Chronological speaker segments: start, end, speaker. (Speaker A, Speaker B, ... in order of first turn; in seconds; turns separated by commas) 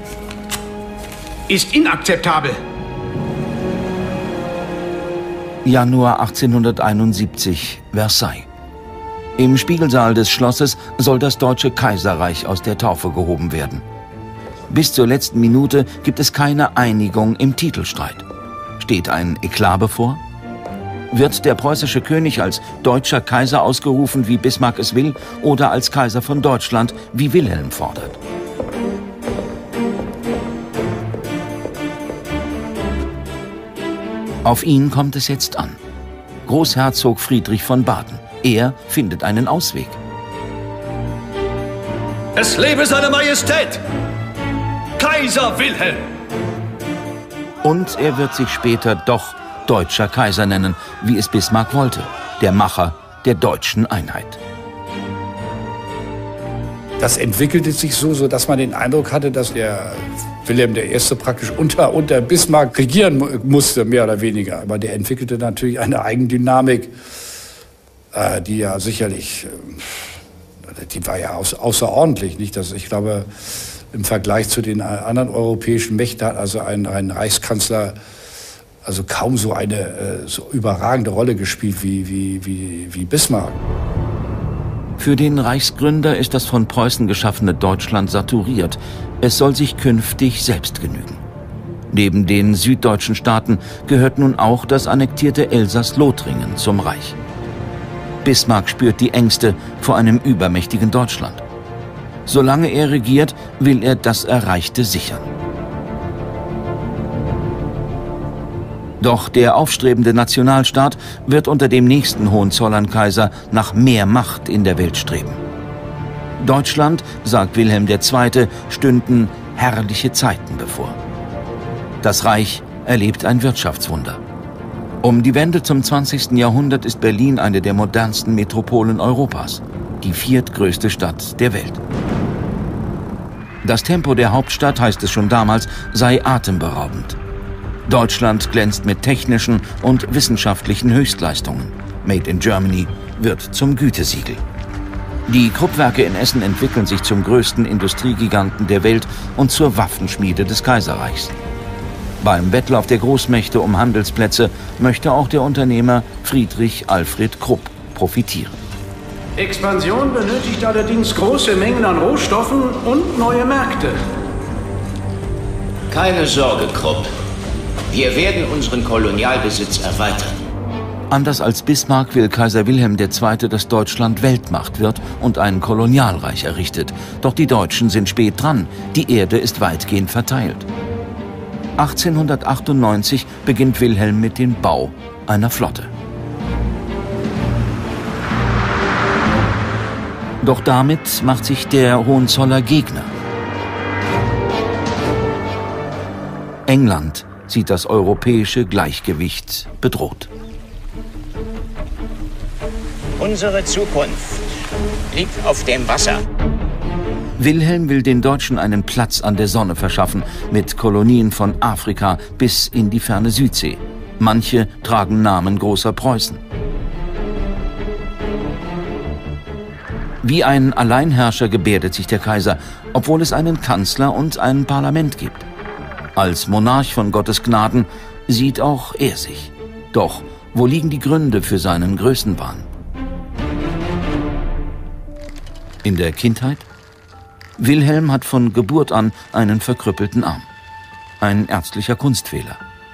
Speaker A: 1.5-2.6, Speaker B: 5.6-8.5, Speaker B: 9.4-13.8, Speaker B: 14.7-18.2, Speaker B: 18.8-20.2, Speaker B: 21.1-28.2, Speaker B: 34.5-35.8, Speaker B: 36.5-40.0, Speaker C: 42.4-43.8, Speaker C: 45.0-46.1, Speaker B: 47.6-54.4, Speaker D: 57.0-66.9, Speaker D: 68.1-70.1, Speaker D: 70.8-78.0, Speaker D: 78.8-83.6, Speaker B: 85.0-91.2, Speaker B: 91.9-97.2, Speaker B: 98.2-101.4, Speaker B: 102.3-105.3, Speaker B: 109.0-115.4, Speaker B: 116.4-121.0, Speaker B: 122.0-124.2, Speaker B: 125.0-131.8, Speaker B: 133.6-137.2, Speaker B: 137.9-144.4, Speaker B: 145.3-151.3, Speaker B: 152.2-158.6, Speaker A: 159.4-164.0, Speaker E: 165.9-167.1, Speaker E: 167.9-170.4, Speaker B: 171.1-180.7, Speaker B: 181.8-185.9, Speaker B: 190.4-193.1, Speaker B: 196.7-200.3, Speaker E: 203.2-204.4, Speaker E: 205.1-206.2, Speaker B: 207.4-216.4, Speaker B: 220.2-225.5, Speaker B: 226.2-232.7, Speaker B: 235.8-236.7, Speaker B: 237.6-240.5, Speaker B: 241.2-242.6